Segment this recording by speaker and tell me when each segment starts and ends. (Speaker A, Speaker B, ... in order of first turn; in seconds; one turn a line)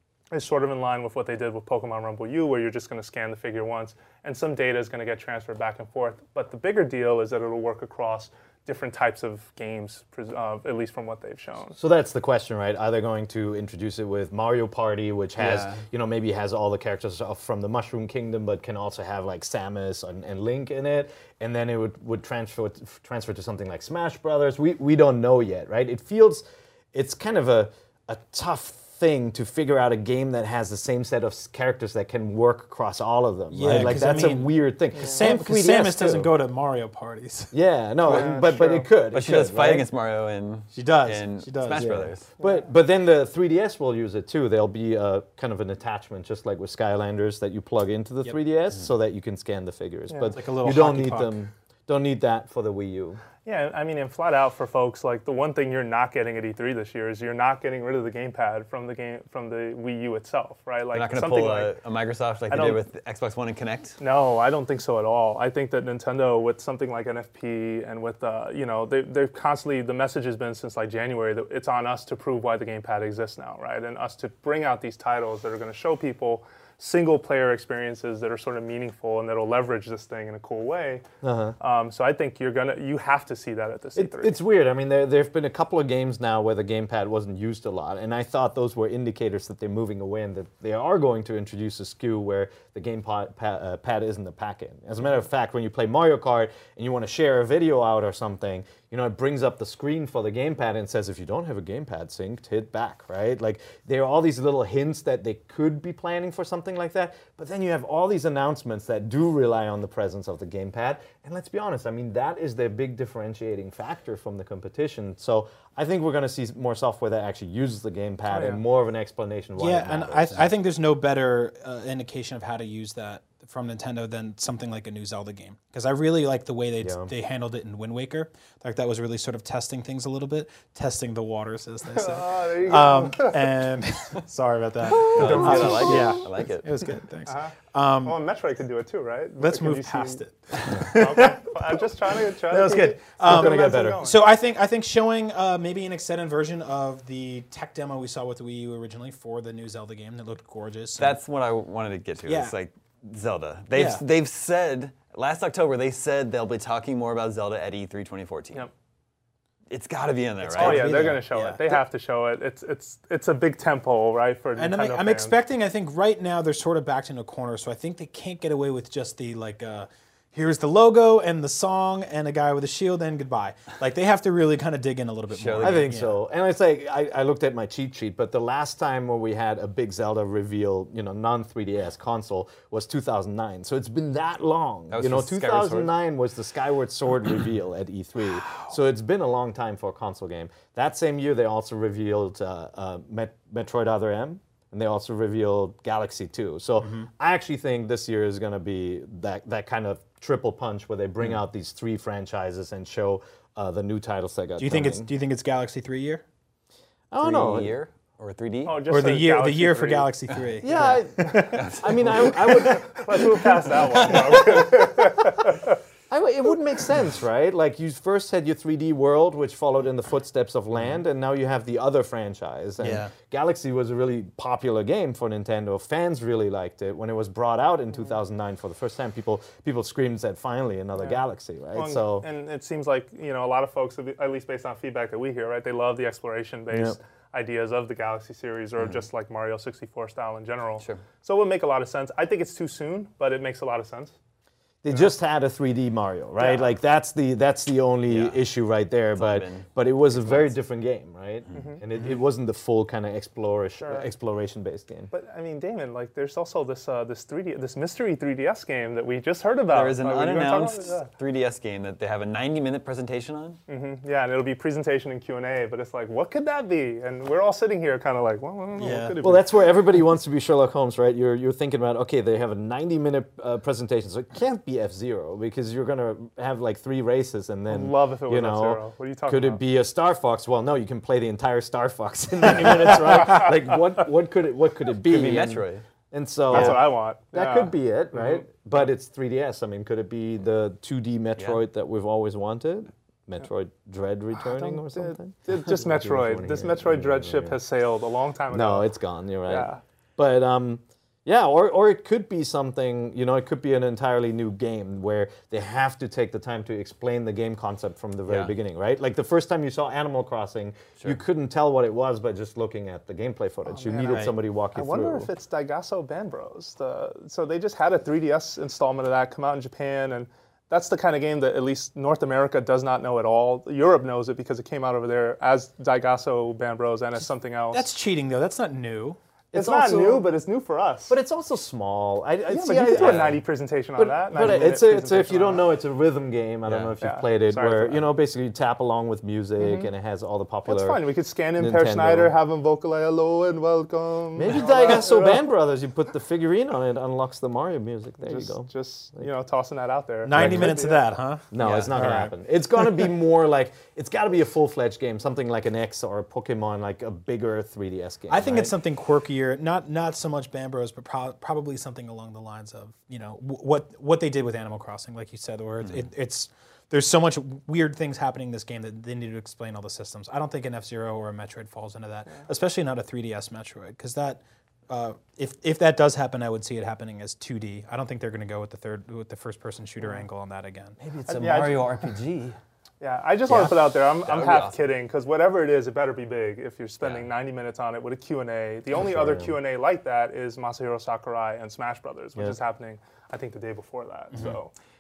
Speaker A: 0.3-11.8
Speaker B: 11.8-36.3
Speaker C: 15.4-15.8
Speaker D: 33.5-37.5
Speaker A: 35.0-35.3
Speaker B: 37.5-39.9
Speaker A: 38.0-38.9
Speaker C: 39.1-42.3
Speaker D: 40.7-42.1
Speaker B: 41.7-53.2
Speaker A: 42.4-42.7
Speaker D: 50.3-51.4
Speaker A: 53.4-61.8
Speaker C: 60.9-64.0
Speaker A: 62.5-62.8
Speaker A: 64.0-81.0
Speaker B: 81.2-81.6
Speaker A: 81.6-84.4
Speaker B: 84.0-120.5
Speaker A: 118.3-118.6
Speaker D: 119.6-138.2
Speaker B: 126.8-127.1
Speaker A: 131.9-133.5
Speaker C: 135.0-136.7
Speaker B: 135.2-136.0
Speaker A: 137.3-140.2
Speaker D: 139.4-141.5
Speaker A: 140.9-144.2
Speaker D: 142.5-151.2
Speaker B: 142.7-144.0
Speaker C: 151.0-158.7
Speaker D: 152.2-152.6
Speaker D: 153.7-154.0
Speaker C: 159.7-161.1
Speaker D: 160.4-161.7
Speaker A: 160.5-165.4
Speaker D: 164.6-176.2
Speaker C: 175.3-175.9
Speaker B: 175.6-205.1
Speaker C: 184.9-185.9
Speaker D: 196.8-197.1
Speaker D: 204.6-206.2
Speaker B: 207.1-207.8
Speaker C: 207.2-208.8
Speaker A: 208.7-210.2
Speaker D: 208.9-211.6
Speaker B: 210.6-213.0
Speaker C: 211.5-212.2
Speaker A: 212.7-215.8
Speaker B: 216.1-232.3
Speaker C: 222.8-223.1
Speaker A: 231.7-244.1
Speaker B: 236.7-237.0
Speaker B: 244.8-255.1
Speaker A: 246.4-246.7
Speaker C: 248.1-248.4
Speaker C: 249.1-250.6
Speaker A: 251.5-251.8
Speaker A: 253.8-254.1
Speaker A: 255.1-261.1
Speaker C: 259.7-263.6
Speaker A: 263.7-269.6
Speaker D: 268.8-269.2
Speaker B: 269.2-297.6
Speaker A: 277.7-279.6
Speaker C: 285.1-285.8
Speaker A: 286.5-288.4
Speaker C: 291.4-291.6
Speaker A: 294.4-298.9
Speaker B: 298.5-315.3
Speaker A: 299.5-299.8
Speaker C: 308.3-308.6
Speaker A: 313.7-327.9
Speaker D: 327.7-329.2
Speaker B: 329.5-330.3
Speaker A: 329.5-331.2
Speaker B: 331.1-342.4
Speaker A: 332.5-335.7
Speaker C: 333.0-333.4
Speaker C: 336.6-336.9
Speaker A: 337.0-338.1
Speaker A: 339.6-339.9
Speaker A: 340.7-345.5
Speaker B: 344.4-349.3
Speaker A: 348.2-351.2
Speaker D: 350.2-352.3
Speaker B: 350.3-350.9
Speaker B: 351.5-358.8
Speaker C: 351.6-351.9
Speaker D: 358.3-381.0
Speaker C: 381.0-382.6
Speaker A: 381.3-382.1
Speaker A: 383.0-394.7
Speaker C: 384.2-384.8
Speaker C: 387.0-387.3
Speaker B: 388.9-389.6